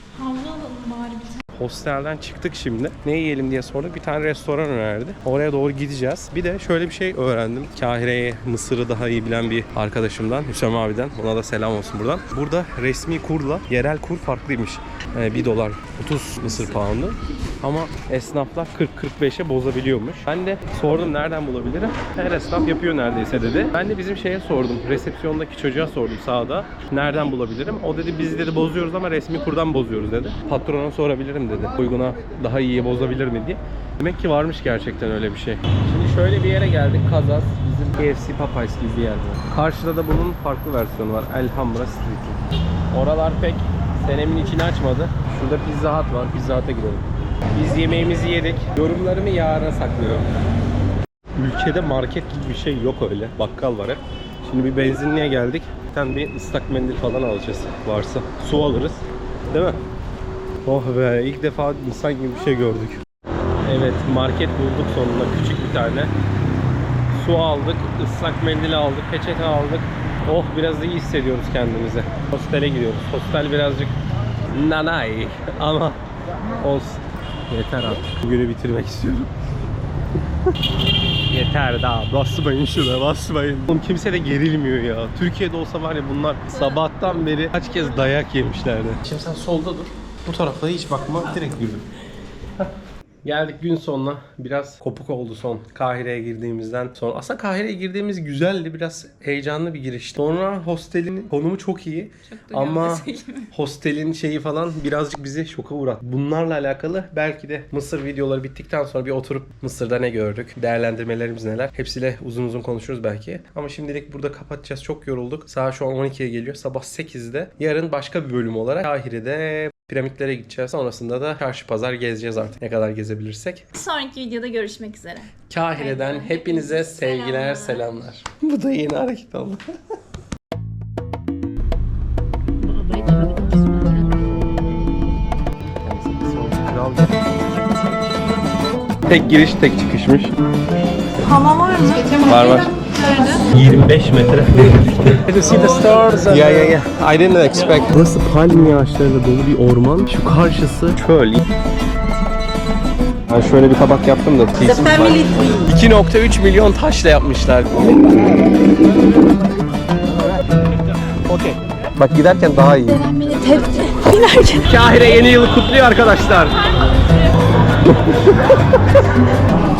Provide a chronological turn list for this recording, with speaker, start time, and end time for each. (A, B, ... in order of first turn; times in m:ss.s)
0:00.1-0:01.4 A
0:01.6-0:50.3 B
0:51.4-0:59.8 B
1:00.6-1:03.0 B
1:03.6-1:06.1 B
1:07.1-1:14.0 B
1:14.5-1:16.0 B
1:16.6-1:19.3 B
1:21.3-1:31.9 B
1:33.2-2:03.7 B
1:42.3-1:43.5 A
2:03.8-2:07.9 A
2:05.5-2:09.6 B
2:12.6-2:14.1 A
2:15.7-2:17.2 B
2:19.1-2:20.3 B
2:21.2-2:21.5 B
2:21.2-2:23.4 A
2:22.2-2:22.8 B
2:23.5-2:31.4 B
2:25.8-2:26.3 A
2:33.3-2:38.4 B
2:41.3-2:43.1 B
2:43.1-2:44.7 A
2:44.5-2:46.6 B
2:46.5-2:47.5 A
2:47.8-2:48.8 B